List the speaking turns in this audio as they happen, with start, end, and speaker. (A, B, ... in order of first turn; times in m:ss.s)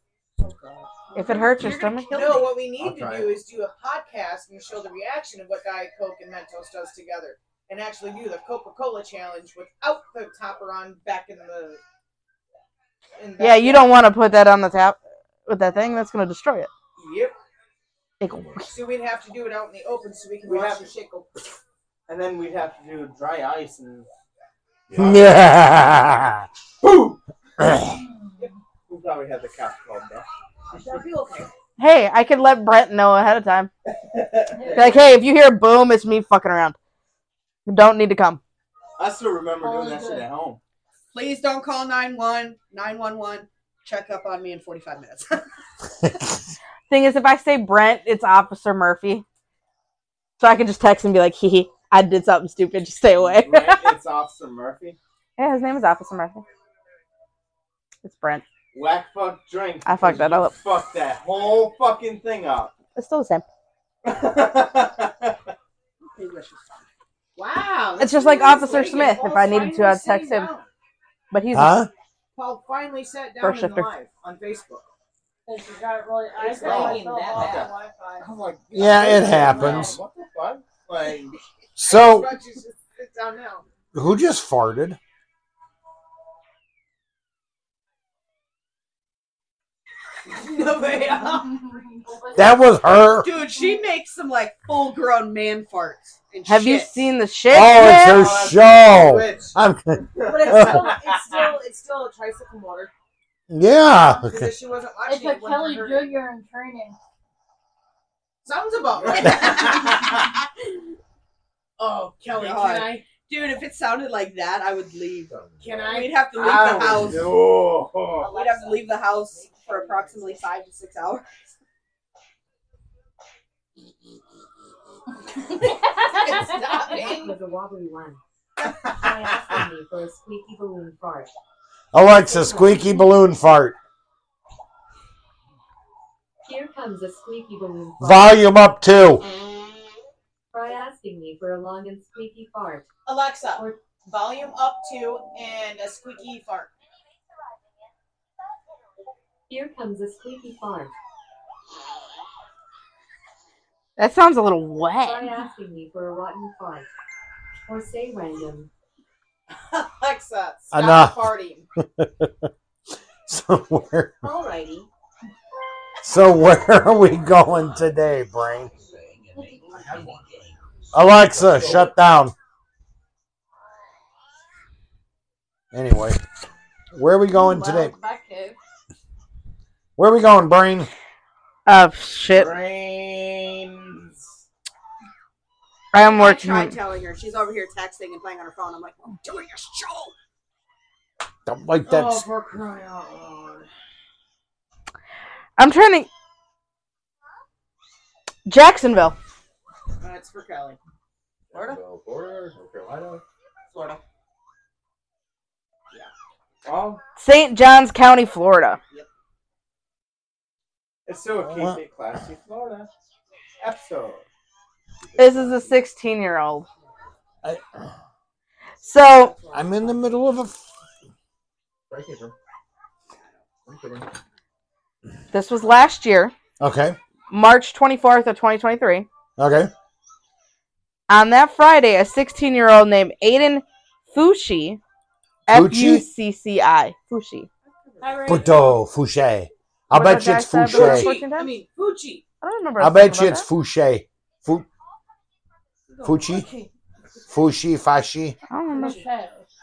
0:00.4-0:01.4 A
0:01.1-0:02.1 B
0:01.2-0:02.6 C
0:02.1-0:11.8 A
0:02.7-0:03.4 D
0:13.2-0:13.9 A
0:13.4-0:16.7 B
0:17.0-0:17.3 A
0:18.2-0:18.7 B
0:18.4-0:18.6 D
0:18.6-0:21.3 A
0:20.4-0:20.9 E
0:22.1-0:24.1 E
0:24.9-0:25.3 D
0:24.9-0:26.5 F
0:26.8-0:27.2 E
0:27.6-0:28.0 F
0:27.9-0:28.6 G
0:28.9-0:30.9 E
0:30.7-0:31.5 A
0:31.8-0:33.7 B
0:33.9-0:35.0 E
0:34.5-0:35.0 G
0:34.7-0:36.8 B
0:37.7-0:38.4 B
0:39.0-0:40.6 E
0:39.6-0:40.3 G
0:41.1-0:45.4 C
0:46.0-0:46.5 F
0:46.9-0:49.2 B
0:50.4-0:53.8 B
0:53.2-0:55.0 E
0:55.4-0:56.4 B
0:58.0-0:58.4 B
0:58.7-1:02.7 E
0:59.8-1:00.5 B
1:03.0-1:03.4 B
1:04.0-1:05.4 E
1:06.1-1:06.8 C
1:07.3-1:10.7 A
1:08.0-1:10.5 B
1:11.3-1:11.8 B
1:11.5-1:11.9 F
1:12.3-1:14.9 A
1:13.4-1:13.9 B
1:15.4-1:17.8 G
1:16.3-1:18.3 A
1:16.4-1:21.4 E
1:18.7-1:20.0 F
1:19.3-1:20.0 G
1:21.8-1:22.3 F
1:21.8-1:23.6 A
1:23.9-1:25.0 F
1:30.3-1:31.5 A
1:31.2-1:32.6 G
1:32.4-1:33.3 F
1:33.2-1:37.0 C
1:36.4-1:38.3 B
1:37.5-1:40.9 F
1:37.9-1:39.5 E
1:40.1-1:41.0 E
1:40.2-1:42.9 A
1:43.5-1:44.5 F
1:44.0-1:46.1 A
1:45.0-1:47.0 G
1:48.4-1:50.1 A
1:49.0-1:50.0 E
1:51.8-1:53.1 A
1:52.3-1:55.3 C
1:55.3-1:55.9 D
1:55.6-1:56.2 A
1:55.9-1:57.3 C
1:56.3-1:58.4 E
1:58.2-2:01.3 C
1:58.4-2:00.0 A
2:05.6-2:07.0 G
2:06.2-2:07.3 A
2:06.9-2:11.3 H
2:11.9-2:13.8 F
2:12.2-2:13.0 H
2:16.4-2:18.4 H
2:18.0-2:19.3 F
2:20.5-2:22.9 H
2:23.0-2:26.7 A
2:23.4-2:23.8 H
2:29.5-2:30.9 H
2:34.0-2:35.3 B
2:35.0-2:36.9 H
2:37.6-2:38.7 H
2:39.5-2:41.6 A
2:40.7-2:42.5 F
2:43.3-2:44.2 F
2:44.2-2:44.9 H
2:46.0-2:48.7 F
2:47.5-2:47.9 D
2:48.6-2:52.0 D
2:49.4-2:49.6 G
2:50.9-2:52.3 F
2:55.7-2:56.2 F
2:56.9-2:57.9 F
2:57.3-2:58.6 G
3:00.0-3:00.9 F
3:01.7-3:02.6 B
3:02.3-3:04.3 E
3:05.9-3:06.7 B
3:06.0-3:10.1 C
3:11.4-3:12.2 F
3:11.9-3:13.6 A
3:15.6-3:16.1 B
3:18.4-3:19.2 B
3:20.0-3:20.8 A
3:21.5-3:23.2 D
3:21.5-3:21.8 C
3:23.7-3:24.0 C
3:26.6-3:27.0 E
3:27.2-3:28.8 B
3:31.0-3:32.9 E
3:31.4-3:31.8 F
3:33.6-3:34.2 E
3:35.0-3:35.8 D
3:35.2-3:36.6 B
3:37.4-3:37.8 F
3:38.8-3:39.3 B
3:39.1-3:40.0 C
3:39.5-3:40.6 F
3:41.9-3:42.3 D
3:43.6-3:44.1 D
3:45.3-3:46.3 B
3:46.6-3:47.0 F
3:47.3-3:49.1 B
3:49.4-3:49.7 F
3:51.1-3:54.8 B
3:55.5-3:57.5 B
3:55.5-3:56.0 F
3:58.0-3:58.6 G
3:58.3-4:01.1 F
3:59.9-4:01.5 B
4:00.7-4:02.2 A
4:02.4-4:03.5 B
4:02.8-4:04.7 F
4:06.0-4:06.4 F
4:06.3-4:06.7 G
4:07.3-4:08.4 F
4:08.5-4:09.0 B
4:08.7-4:09.5 G